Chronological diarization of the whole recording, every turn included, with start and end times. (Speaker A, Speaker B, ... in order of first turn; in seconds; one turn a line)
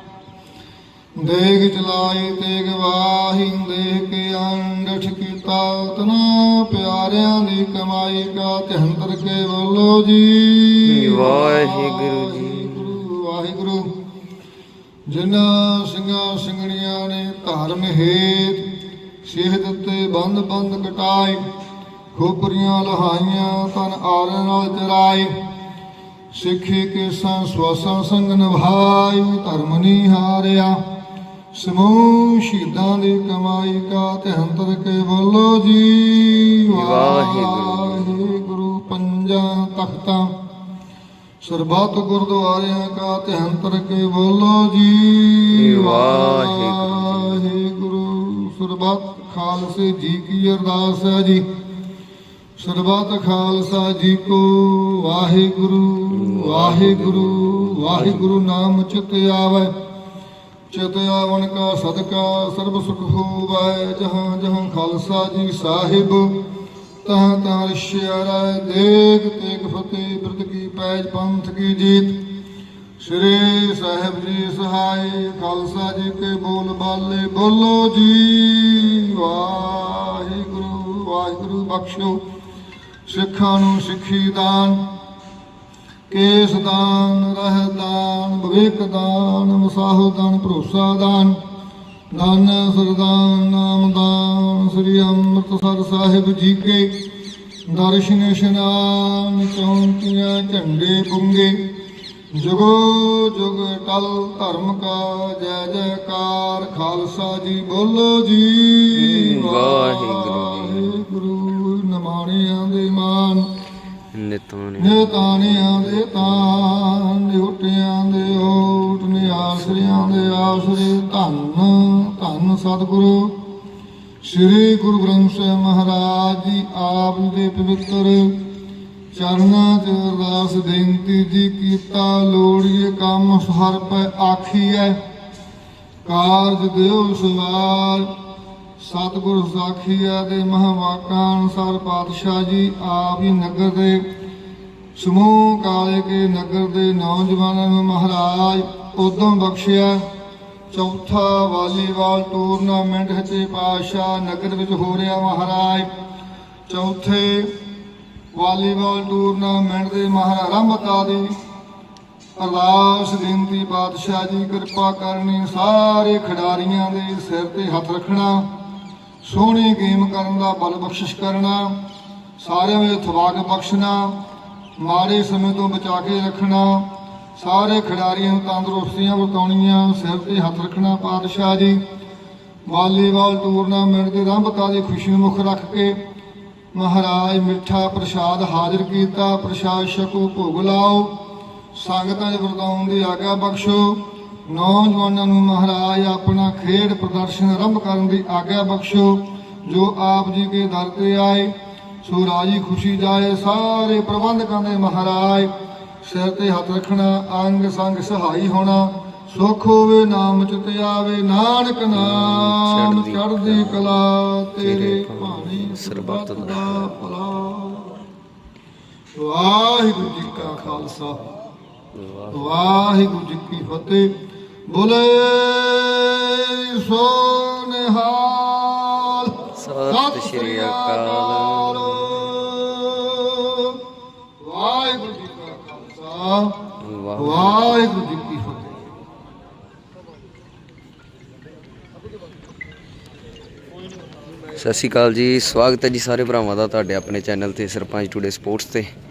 Speaker A: 1.2-13.9
Speaker B: 10.8-12.9
Speaker A: 15.1-18.6
Speaker A: 19.2-21.4
Speaker A: 22.1-25.3
Speaker A: 26.3-30.8
Speaker A: 31.5-40.3
Speaker B: 36.7-38.2
Speaker A: 41.4-51.4
Speaker B: 45.5-47.4
Speaker A: 52.6-59.7
Speaker B: 56.1-58.4
Speaker A: 60.7-66.3
Speaker A: 67.0-72.2
Speaker A: 73.0-82.2
Speaker A: 83.1-84.8
Speaker A: 86.1-91.4
Speaker A: 92.1-96.9
Speaker A: 97.7-101.6
Speaker A: 102.3-113.5
Speaker B: 108.9-111.0
Speaker B: 114.1-116.6
Speaker A: 114.8-123.3
Speaker B: 119.3-120.6
Speaker A: 124.2-128.3
Speaker A: 129.1-135.0
Speaker A: 136.0-138.1
Speaker A: 138.8-144.0
Speaker A: 144.9-150.0
Speaker A: 150.7-155.9
Speaker A: 156.7-157.5
Speaker A: 158.3-161.3
Speaker A: 162.4-168.5
Speaker A: 169.2-171.8
Speaker A: 172.4-174.2
Speaker A: 174.8-181.8
Speaker A: 182.7-186.0
Speaker A: 186.7-191.1
Speaker A: 191.7-201.5
Speaker A: 202.0-205.5
Speaker A: 206.0-218.0
Speaker B: 211.9-214.0
Speaker B: 214.6-217.0
Speaker A: 219.1-221.3
Speaker B: 221.9-222.7
Speaker A: 222.3-224.1
Speaker A: 224.7-229.3
Speaker B: 229.6-232.2
Speaker A: 229.9-233.8
Speaker A: 234.4-236.6
Speaker B: 236.8-237.8
Speaker A: 237.2-238.8
Speaker B: 244.6-248.9